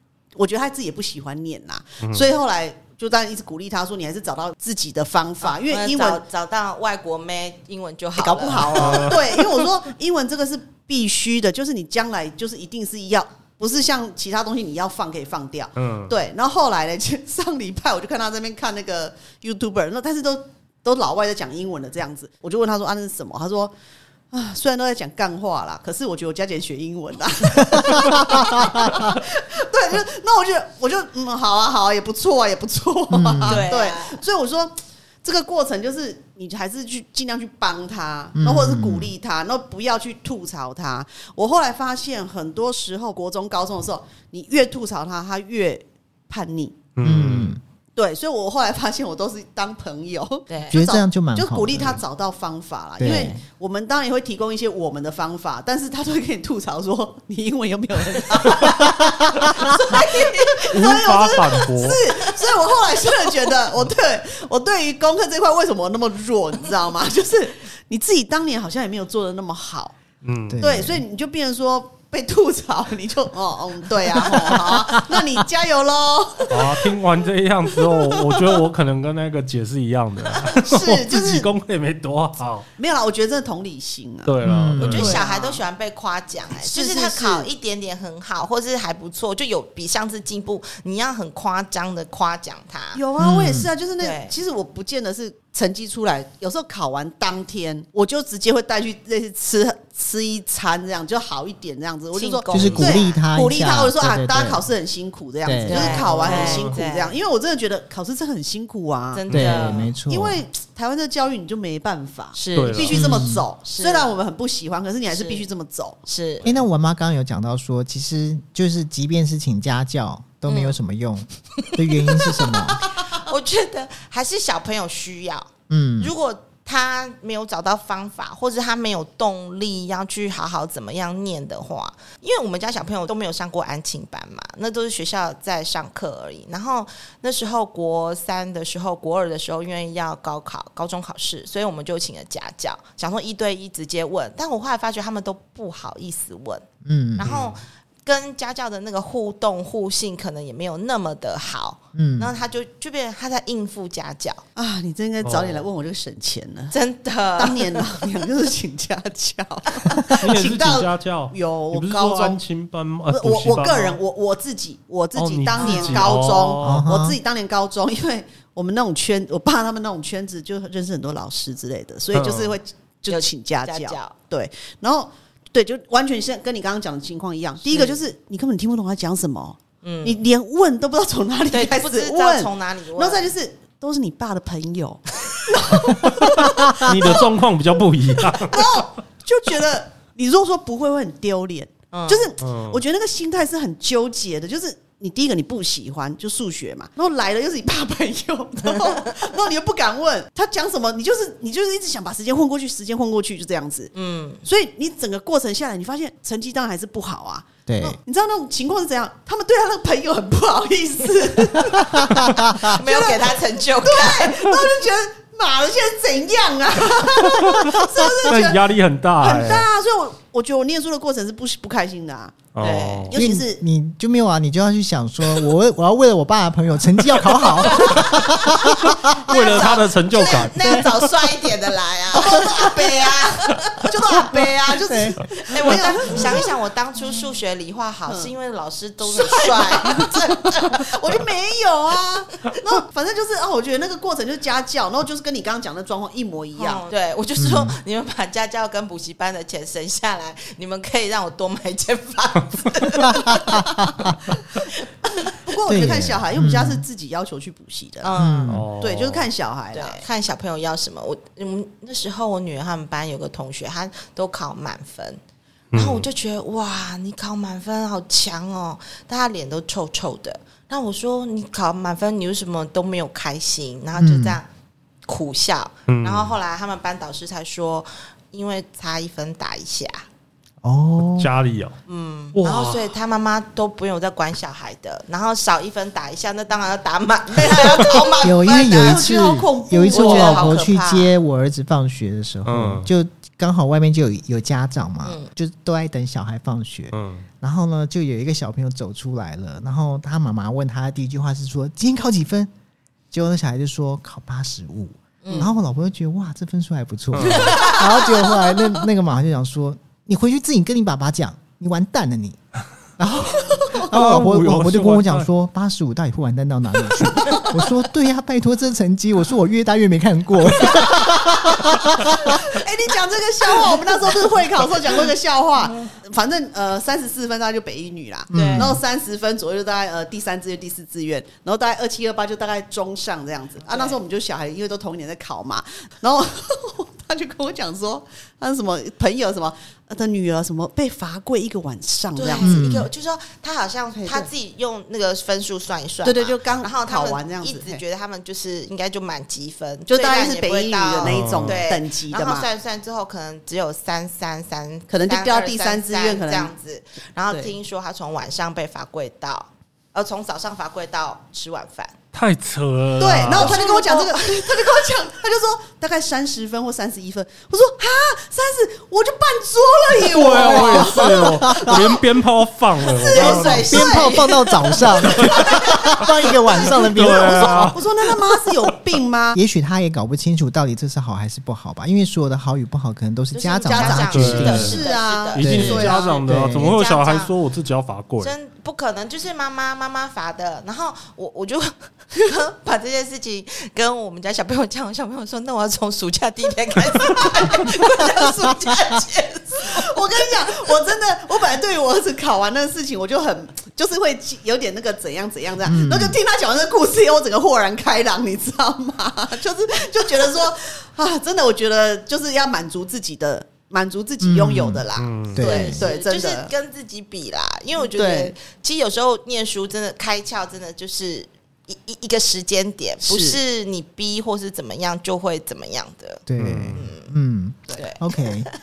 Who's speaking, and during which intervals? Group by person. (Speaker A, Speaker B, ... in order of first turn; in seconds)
Speaker A: 0.3-6.2, 8.2-23.7, 24.3-46.8, 48.0-70.0, 70.6-77.0, 77.8-78.5, 80.5-81.5, 82.8-85.6, 86.6-87.5, 92.9-116.0, 154.6-156.8, 157.4-162.4, 163.1-187.2, 188.2-203.9, 204.4-218.6, 219.2-222.5, 223.1-223.6, 232.2-233.0, 233.8-236.5, 238.1-238.3, 239.0-246.8, 255.3-258.1, 258.8-260.0, 287.4-290.6, 313.3-313.8, 322.1-342.6, 344.0-344.3, 346.0-347.8, 349.9-352.5, 354.9-356.5, 357.3-357.5, 363.0-372.2, 372.8-379.4, 383.6-386.2, 399.5-416.5, 417.8-418.4, 423.0-423.4
Speaker B: 2.0-2.3, 8.6-9.2, 15.8-16.1, 47.0-47.6, 60.7-62.0, 70.2-70.6, 76.5-82.7, 84.3-85.2, 106.0-106.8, 109.3-109.7, 112.5-113.1, 147.3-147.5, 155.2-155.7, 160.1-164.0, 165.2-166.9, 172.1-172.6, 185.9-188.9, 192.4-192.8, 218.2-219.7, 222.6-223.2, 228.7-230.6, 258.5-259.3, 265.7-266.1, 275.9-276.4, 281.2-281.8, 282.3-282.9, 292.5-292.9, 296.9-297.3, 307.1-307.7, 313.8-315.3, 351.0-351.6, 362.1-363.6, 369.9-374.0, 376.6-378.7, 384.1-388.3, 415.0-415.7, 426.4-426.9
Speaker C: 5.4-9.4, 33.5-34.2, 50.5-50.8, 59.8-60.6, 84.8-93.0, 94.0-94.3, 102.1-103.2, 105.6-107.1, 109.1-109.9, 112.3-113.1, 113.7-114.1, 115.1-115.5, 116.1-116.6, 120.5-120.8, 121.6-154.4, 156.7-157.9, 165.5-166.2, 173.1-174.1, 177.7-178.0, 179.8-180.2, 181.5-183.3, 191.9-192.3, 203.9-204.4, 212.6-214.5, 222.6-223.1, 227.7-228.4, 229.3-233.9, 235.4-241.0, 246.6-253.7, 258.0-258.6, 259.7-265.2, 265.7-274.5, 275.1-280.1, 281.9-289.2, 289.9-291.1, 295.1-295.3, 305.2-305.5, 307.5-307.8, 328.3-328.8, 333.7-334.0, 342.1-361.9, 363.3-364.9, 373.1-375.3, 383.3-387.3, 388.2-400.0, 415.4-427.1, 427.8-428.3
Speaker D: 27.8-29.1, 33.1-33.7, 38.4-39.1, 47.0-47.6, 50.7-52.0, 53.0-53.4, 70.5-71.0, 74.2-74.9, 84.4-85.2, 93.2-93.7, 102.5-104.6, 105.4-106.1, 109.3-110.4, 112.9-113.5, 116.5-122.8, 125.7-126.1, 146.8-147.3, 151.9-152.3, 166.6-167.2, 186.6-186.9, 207.7-208.0, 211.8-212.6, 223.2-229.3, 230.6-231.0, 234.9-235.2, 247.4-247.7, 253.1-253.9, 255.7-256.8, 258.1-258.7, 274.0-274.4, 280.6-281.3, 288.2-302.5, 303.1-312.4, 313.0-322.6, 328.3-328.8, 342.4-342.9, 370.6-371.9, 373.6-377.8, 379.3-384.8, 385.4-386.8, 405.6-406.2, 414.2-415.9, 426.3-428.5